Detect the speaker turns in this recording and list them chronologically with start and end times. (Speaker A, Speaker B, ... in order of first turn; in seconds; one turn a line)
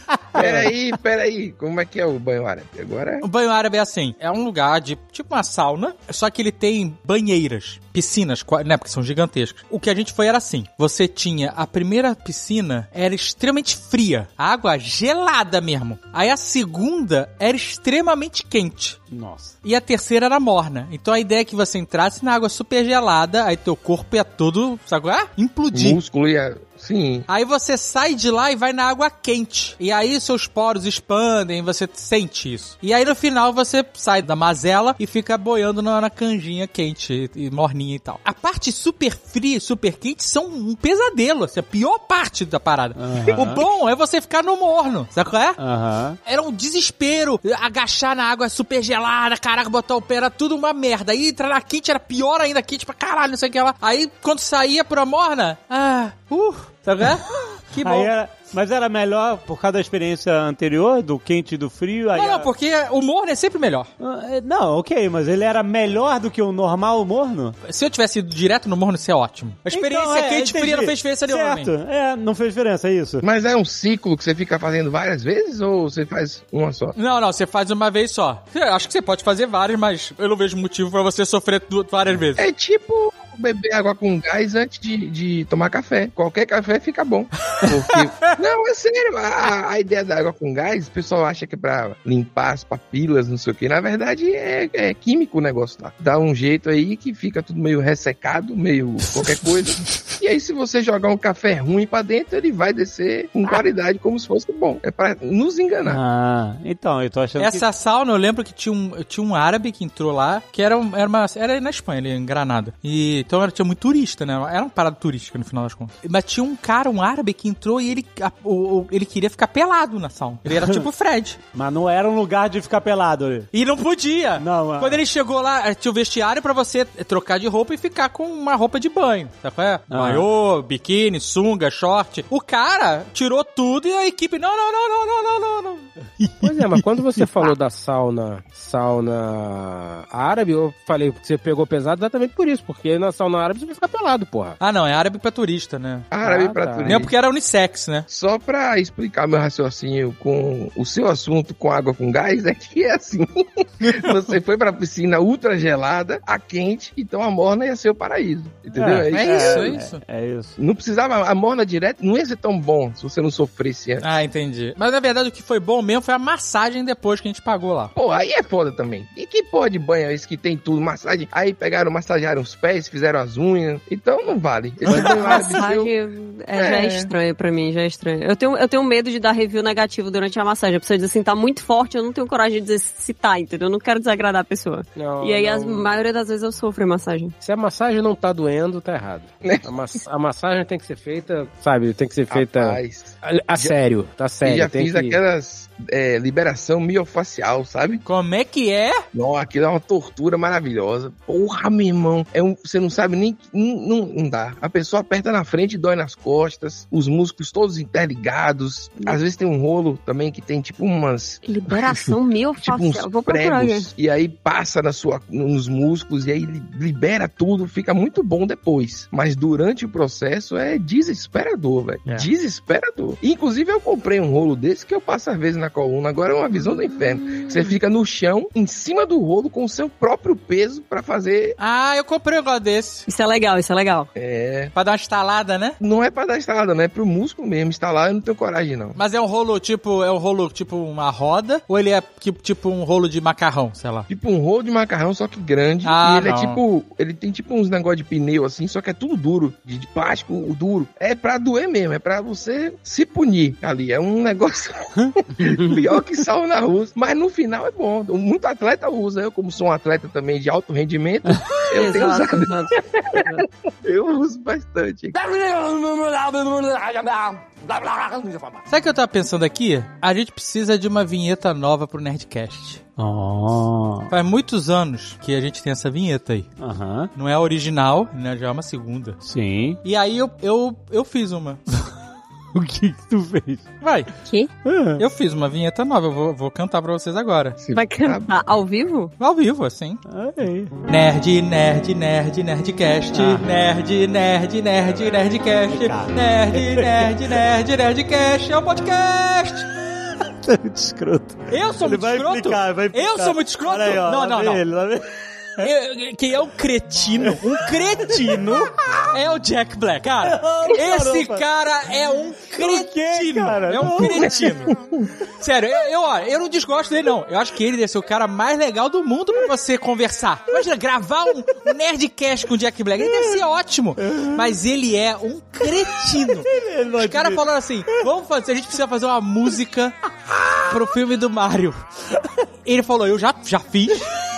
Speaker A: 0.3-3.2
Speaker B: 3.2-19.0
Speaker C: 19.1-19.5
Speaker B: 19.6-26.0
Speaker A: 25.7-27.3
Speaker B: 27.3-45.6
Speaker C: 43.0-43.6
Speaker C: 45.6-46.2
Speaker B: 46.2-58.1
Speaker C: 57.8-62.5
Speaker B: 62.1-63.9
Speaker C: 64.0-67.5
Speaker B: 67.6-71.7
Speaker C: 69.7-73.2
Speaker A: 73.2-76.9
Speaker B: 76.9-82.5
Speaker A: 82.4-106.0
Speaker C: 105.8-107.6
Speaker B: 107.4-121.4
Speaker C: 120.5-120.8
Speaker C: 121.5-123.5
Speaker B: 123.5-137.5
Speaker C: 124.4-125.0
Speaker C: 129.9-130.2
Speaker D: 136.4-144.6
Speaker B: 144.6-146.1
Speaker A: 146.1-147.1
Speaker D: 146.2-147.1
Speaker B: 146.8-148.1
Speaker A: 148.1-159.7
Speaker C: 158.7-160.5
Speaker B: 159.1-160.0
Speaker A: 160.6-164.0
Speaker B: 164.0-167.9
Speaker A: 167.9-175.9
Speaker E: 174.9-187.3
Speaker D: 174.9-175.3
Speaker A: 176.6-177.1
Speaker D: 184.9-185.9
Speaker D: 187.4-195.2
Speaker A: 192.3-193.8
Speaker A: 194.4-198.0
Speaker B: 198.0-199.0
Speaker A: 199.1-231.6
Speaker E: 211.4-213.9
Speaker B: 231.6-233.1
Speaker E: 233.1-234.1
Speaker A: 234.1-234.7
Speaker B: 234.7-235.8
Speaker A: 235.8-239.0
Speaker B: 238.9-244.1
Speaker A: 244.1-265.2
Speaker B: 245.8-246.6
Speaker E: 261.7-263.4
Speaker B: 268.7-272.8
Speaker C: 273.0-274.1
Speaker B: 274.1-276.5
Speaker C: 276.6-277.1
Speaker B: 277.1-279.2
Speaker C: 279.2-279.8
Speaker B: 279.8-281.6
Speaker C: 282.5-283.6
Speaker B: 283.8-284.1
Speaker E: 284.2-284.5
Speaker C: 284.6-285.0
Speaker B: 285.0-287.6
Speaker A: 287.6-288.3
Speaker E: 287.7-289.1
Speaker B: 289.2-290.0
Speaker C: 290.1-290.7
Speaker B: 290.9-299.7
Speaker C: 293.1-293.4
Speaker C: 295.7-297.1
Speaker C: 300.2-305.7
Speaker B: 301.5-304.6
Speaker B: 305.6-314.7
Speaker C: 310.3-311.4
Speaker C: 312.6-314.4
Speaker B: 315.4-330.0
Speaker C: 323.0-323.4
Speaker C: 324.0-324.6
Speaker C: 325.6-328.0
Speaker B: 330.6-331.8
Speaker B: 332.6-334.1